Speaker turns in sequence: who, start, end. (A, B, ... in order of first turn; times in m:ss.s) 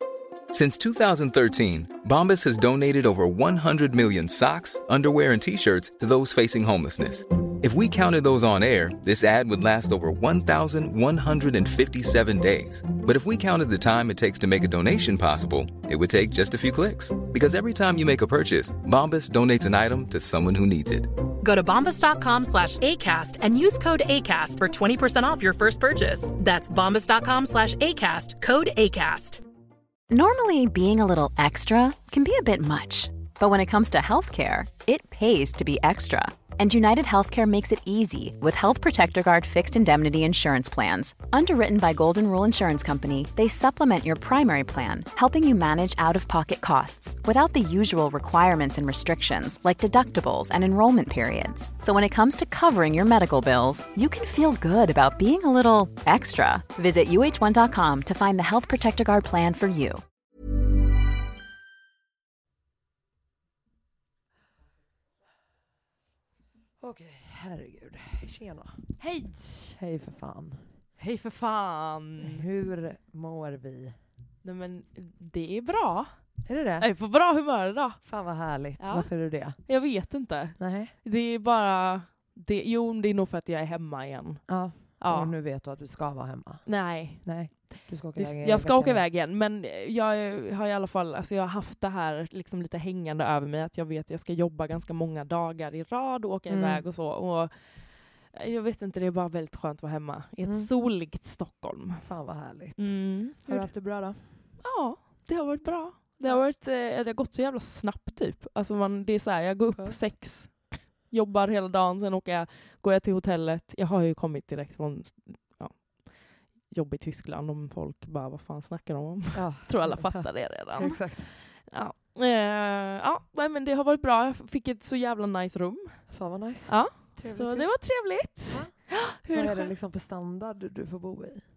0:00.5-0:21.1 A
0:21.4-0:29.4 B
0:30.1-1:00.0 C
1:06.8-1:08.8 D
1:09.0-1:09.8 E
1:09.8-1:10.6 D
1:11.0-1:12.4 E
1:12.2-1:13.9 D
1:14.4-1:16.2 E
1:16.4-1:16.9 D
1:16.8-1:18.0 E
1:18.0-1:19.6 D
1:18.8-1:25.3 E
1:20.6-1:20.9 D
1:24.5-1:29.0 D
1:26.6-1:27.6 E
1:28.1-1:37.5 E
1:36.5-1:36.8 D
1:38.3-1:42.0 E
1:42.0-1:44.4 D
1:42.8-1:43.7 E
1:44.6-1:55.9 E
1:49.8-1:50.0 D
1:56.7-2:06.0 E
1:59.3-2:01.3 D
2:06.1-2:11.4 D
2:06.7-2:09.7 E